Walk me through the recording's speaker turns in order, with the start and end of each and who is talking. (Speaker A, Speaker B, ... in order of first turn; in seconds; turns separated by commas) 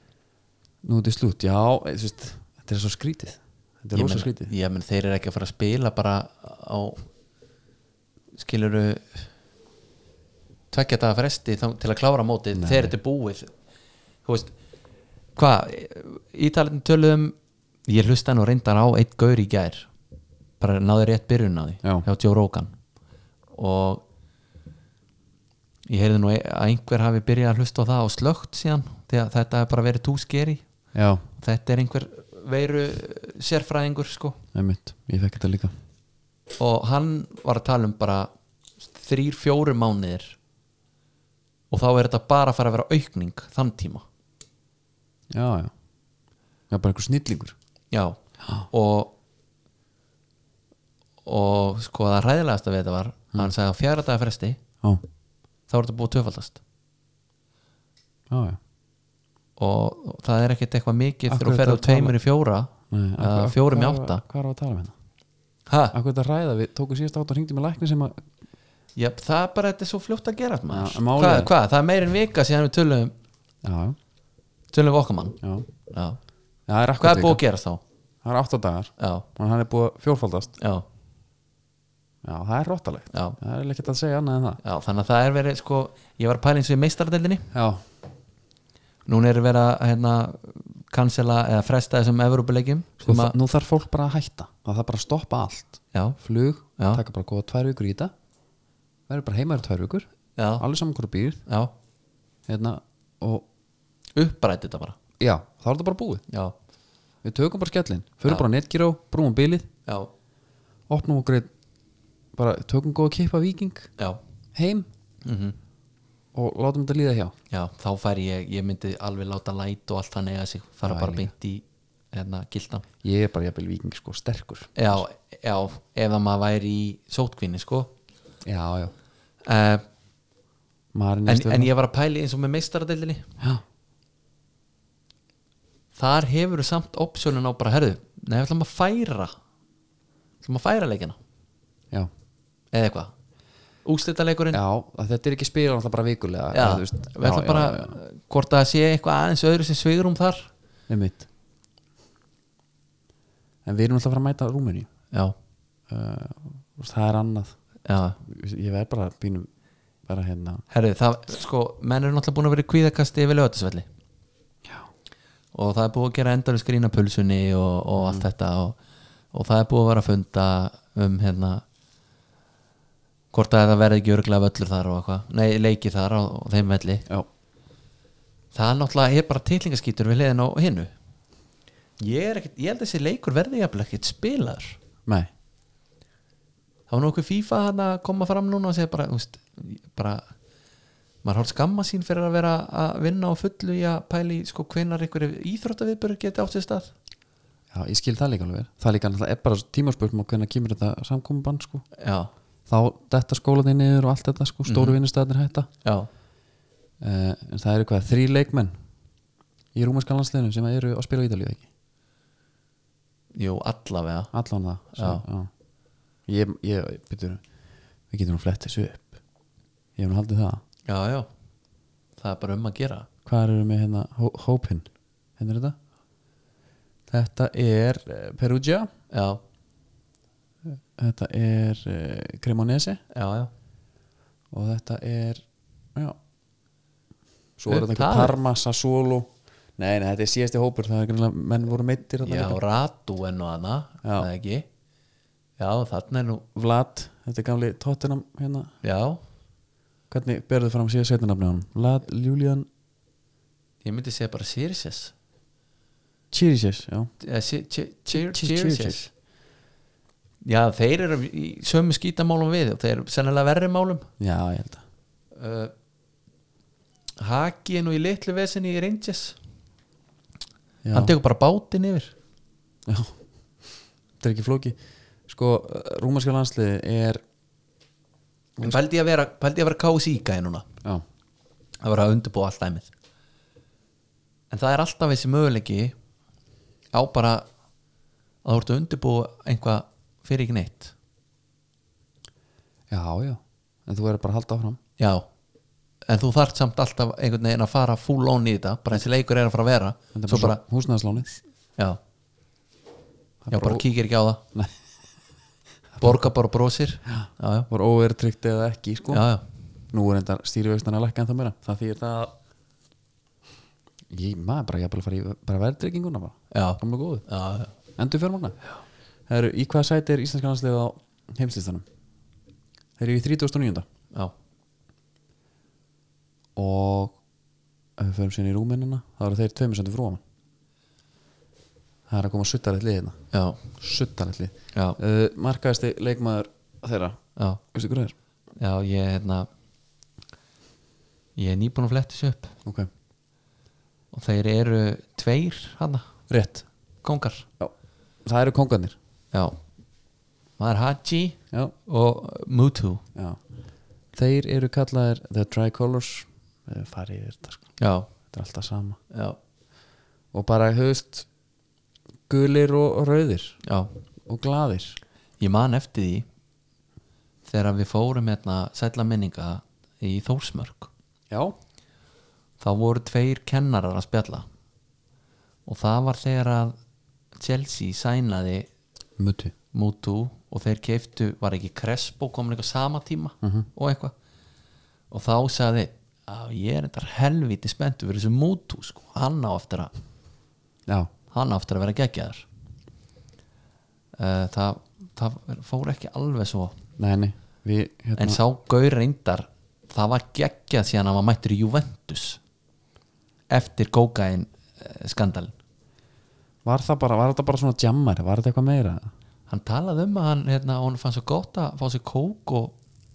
Speaker A: 0.8-4.5, Speaker B: 3.9-7.1, Speaker B: 8.4-9.3, Speaker B: 10.7-13.5, Speaker A: 12.5-12.9, Speaker B: 14.2-14.5, Speaker B: 15.3-17.4, Speaker B: 17.9-19.9, Speaker B: 20.6-22.7, Speaker B: 23.6-24.0, Speaker B: 25.9-30.6, Speaker A: 30.9-31.2, Speaker B: 31.4-34.4, Speaker A: 34.5-35.7, Speaker B: 36.6-38.3, Speaker B: 38.9-40.4, Speaker B: 41.7-44.0, Speaker A: 45.3-45.7, Speaker A: 46.7-47.5, Speaker B: 47.9-48.2, Speaker B: 48.7-49.1, Speaker B: 51.2-54.6, Speaker B: 55.7-56.6, Speaker A: 58.3-58.6, Speaker B: 59.6-64.2, Speaker A: 61.3-62.1, Speaker A: 62.9-64.9, Speaker B: 65.7-65.9, Speaker A: 65.9-68.2, Speaker B: 69.0-73.1, Speaker A: 70.7-71.5, Speaker A: 73.6-74.0, Speaker B: 74.7-76.2, Speaker A: 75.4-75.7, Speaker A: 76.7-77.4, Speaker B: 77.0-77.8, Speaker A: 78.2-80.5, Speaker B: 79.0-79.2, Speaker B: 80.6-80.8, Speaker A: 82.2-84.6, Speaker B: 83.1-83.4, Speaker B: 84.6-87.5, Speaker A: 87.5-87.8, Speaker B: 89.0-93.3, Speaker A: 93.0-98.1, Speaker A: 99.1-100.1, Speaker B: 100.4-100.6, Speaker A: 100.6-101.4, Speaker B: 101.5-101.7, Speaker A: 102.5-103.4, Speaker B: 104.2-105.0, Speaker A: 105.2-106.2, Speaker B: 106.3-106.5, Speaker A: 107.2-109.7, Speaker A: 110.9-111.5, Speaker A: 112.3-113.9, Speaker A: 114.5-114.9, Speaker B: 115.2-115.5, Speaker A: 116.3-117.3, Speaker B: 117.5-122.8, Speaker A: 120.8-121.3, Speaker A: 123.0-125.0, Speaker B: 124.8-127.9, Speaker A: 128.4-128.9, Speaker B: 129.4-129.8, Speaker A: 130.9-131.7, Speaker B: 131.3-133.3, Speaker B: 135.9-139.3, Speaker B: 140.4-141.2, Speaker B: 142.7-143.1, Speaker B: 143.8-144.6, Speaker A: 144.5-148.0, Speaker B: 146.5-150.5, Speaker A: 150.9-151.2, Speaker A: 153.6-154.9, Speaker A: 155.9-157.6, Speaker B: 157.8-158.2, Speaker A: 158.2-159.5, Speaker A: 160.0-160.6, Speaker B: 160.7-163.9, Speaker B: 165.5-168.8, Speaker A: 168.0-168.2, Speaker B: 169.3-171.6, Speaker B: 173.3-177.0, Speaker B: 178.5-180.9, Speaker B: 182.0-184.8, Speaker B: 186.9-190.3, Speaker B: 191.2-196.9, Speaker A: 197.7-201.9, Speaker B: 202.0-202.3, Speaker A: 202.7-205.7, Speaker B: 204.7-205.0, Speaker B: 205.8-206.1, Speaker A: 207.0-208.7, Speaker A: 209.7-211.7, Speaker B: 213.3-214.3, Speaker A: 214.3-215.5, Speaker B: 214.9-215.2, Speaker A: 216.3-217.4, Speaker A: 218.1-219.1, Speaker A: 220.0-220.6, Speaker B: 220.9-221.3, Speaker B: 222.2-223.1, Speaker A: 223.2-225.8, Speaker A: 227.1-228.9, Speaker B: 229.1-229.4, Speaker A: 230.7-233.0, Speaker B: 233.1-233.5, Speaker A: 234.5-235.4, Speaker A: 237.6-242.6, Speaker B: 237.7-238.3, Speaker B: 242.2-244.7, Speaker A: 244.0-244.3, Speaker B: 245.6-246.4, Speaker A: 246.5-248.7, Speaker B: 248.8-249.2, Speaker A: 250.1-252.7, Speaker B: 253.8-255.1, Speaker A: 256.3-257.1, Speaker B: 257.2-259.1, Speaker A: 258.1-259.0, Speaker B: 260.4-264.1, Speaker A: 264.2-264.8, Speaker B: 265.3-265.7, Speaker B: 267.2-269.4, Speaker A: 270.8-271.1, Speaker B: 270.9-272.1, Speaker A: 272.9-277.2, Speaker B: 278.6-280.6, Speaker B: 281.8-282.9, Speaker B: 284.5-285.9, Speaker B: 286.9-287.5, Speaker B: 288.4-290.9, Speaker A: 292.9-294.8, Speaker B: 295.0-295.3, Speaker B: 296.1-300.6, Speaker A: 300.1-301.3, Speaker A: 303.4-303.9, Speaker B: 303.5-304.4, Speaker B: 306.0-307.7, Speaker A: 307.1-309.3, Speaker B: 309.1-309.4, Speaker A: 309.9-312.3, Speaker A: 314.1-317.2, Speaker B: 316.5-317.7, Speaker A: 318.0-318.6, Speaker A: 319.3-321.8, Speaker A: 323.0-323.9, Speaker A: 326.6-327.2, Speaker A: 328.0-330.2, Speaker A: 332.1-333.2, Speaker B: 333.3-333.6, Speaker A: 333.7-337.2, Speaker B: 337.4-337.6, Speaker A: 337.7-338.1, Speaker B: 338.6-339.5, Speaker B: 341.4-342.5, Speaker B: 344.1-346.2, Speaker A: 346.3-346.6, Speaker B: 347.0-347.5, Speaker A: 348.2-348.9, Speaker B: 349.3-349.6, Speaker B: 350.6-353.0, Speaker A: 353.1-353.4, Speaker A: 354.1-359.0, Speaker B: 357.8-358.1, Speaker B: 359.1-359.4, Speaker A: 360.3-361.3, Speaker A: 362.3-363.6, Speaker B: 363.6-363.9, Speaker A: 364.3-365.0, Speaker B: 365.4-366.2, Speaker B: 367.4-370.9, Speaker A: 371.3-371.5, Speaker B: 372.6-374.4, Speaker B: 375.6-376.8, Speaker B: 377.4-378.7, Speaker A: 379.2-379.5, Speaker B: 379.7-384.1, Speaker B: 385.1-389.9, Speaker B: 391.3-392.5, Speaker B: 394.2-396.8, Speaker A: 397.0-398.4, Speaker B: 398.2-402.4, Speaker B: 403.5-405.5, Speaker A: 406.6-409.1, Speaker B: 409.5-412.7